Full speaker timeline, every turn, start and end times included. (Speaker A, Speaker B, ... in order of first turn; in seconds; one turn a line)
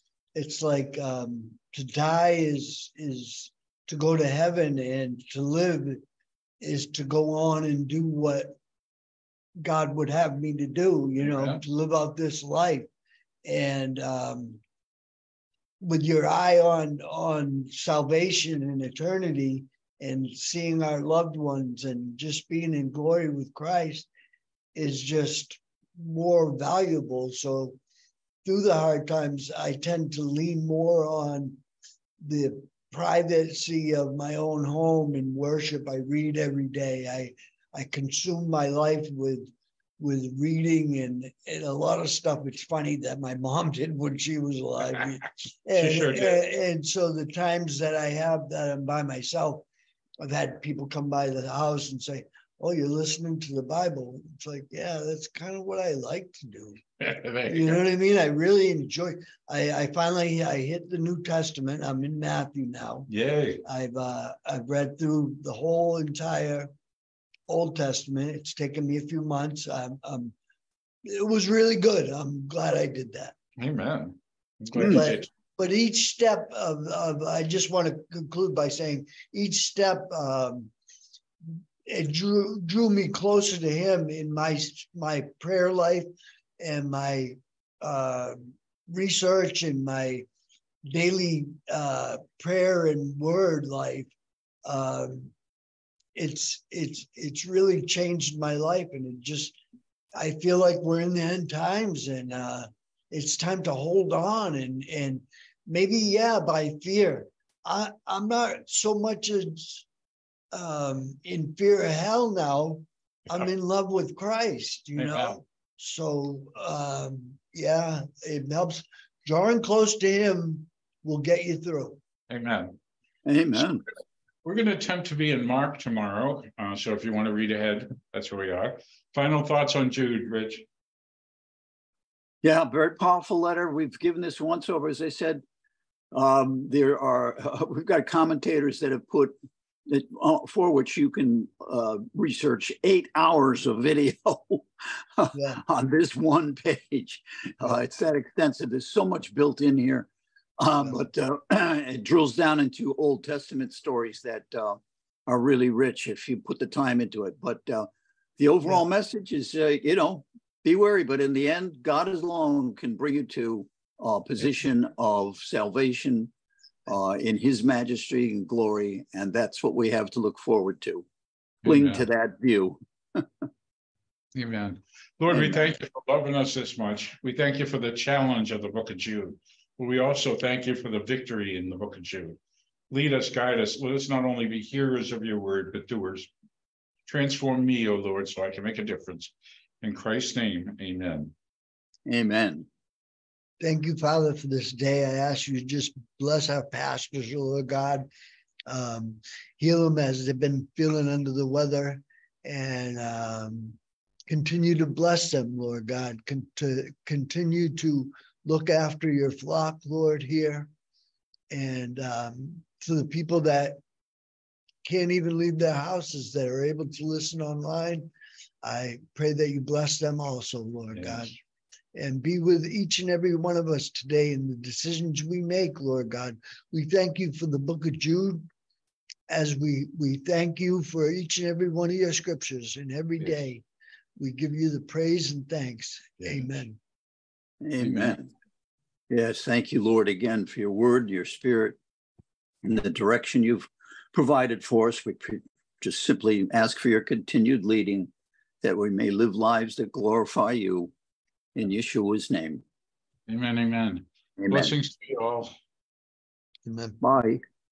Speaker A: 0.3-6.0
Speaker A: 6.6-8.6
Speaker A: 9.6-12.9
Speaker B: 11.2-11.6
Speaker A: 13.4-14.6
Speaker A: 15.8-24.1
Speaker A: 24.8-27.8
Speaker A: 28.4-31.6
Speaker A: 32.2-49.7
Speaker B: 45.8-46.4
Speaker A: 50.2-56.8
Speaker B: 57.0-57.8
Speaker A: 57.5-63.1
Speaker B: 63.1-63.6
Speaker A: 63.6-66.7
Speaker A: 67.5-70.3
Speaker A: 71.1-73.3
Speaker B: 73.6-75.3
Speaker C: 74.8-75.0
Speaker A: 74.9-80.7
Speaker A: 81.9-86.1
Speaker A: 86.6-88.4
Speaker A: 88.9-90.3
Speaker A: 90.9-94.1
Speaker A: 94.7-95.3
Speaker A: 96.2-99.6
Speaker A: 100.2-109.9
Speaker A: 110.5-122.0
Speaker B: 115.0-115.4
Speaker B: 122.3-122.8
Speaker C: 123.2-123.8
Speaker B: 124.4-130.7
Speaker C: 132.4-135.4
Speaker C: 136.1-139.3
Speaker C: 139.9-144.7
Speaker C: 145.2-150.1
Speaker A: 145.3-145.6
Speaker C: 150.6-166.3
Speaker C: 166.9-171.1
Speaker B: 171.6-172.1
Speaker C: 171.7-173.2
Speaker B: 174.3-182.4
Speaker C: 175.3-175.7
Speaker B: 182.9-186.3
Speaker B: 187.1-191.3
Speaker C: 192.1-192.7
Speaker A: 193.6-198.1
Speaker A: 198.7-203.8
Speaker A: 204.3-210.7
Speaker A: 211.5-213.8
Speaker A: 214.8-218.1
Speaker A: 218.6-221.4
Speaker B: 220.9-221.3
Speaker A: 221.9-228.4
Speaker A: 229.3-233.6
Speaker A: 234.2-236.8
Speaker B: 236.2-236.5
Speaker C: 237.6-238.3
Speaker B: 237.8-238.2
Speaker C: 239.1-241.8
Speaker C: 242.6-250.9
Speaker C: 251.6-252.6
Speaker B: 253.3-255.5
Speaker C: 254.4-254.7
Speaker A: 256.7-257.0
Speaker C: 257.0-257.4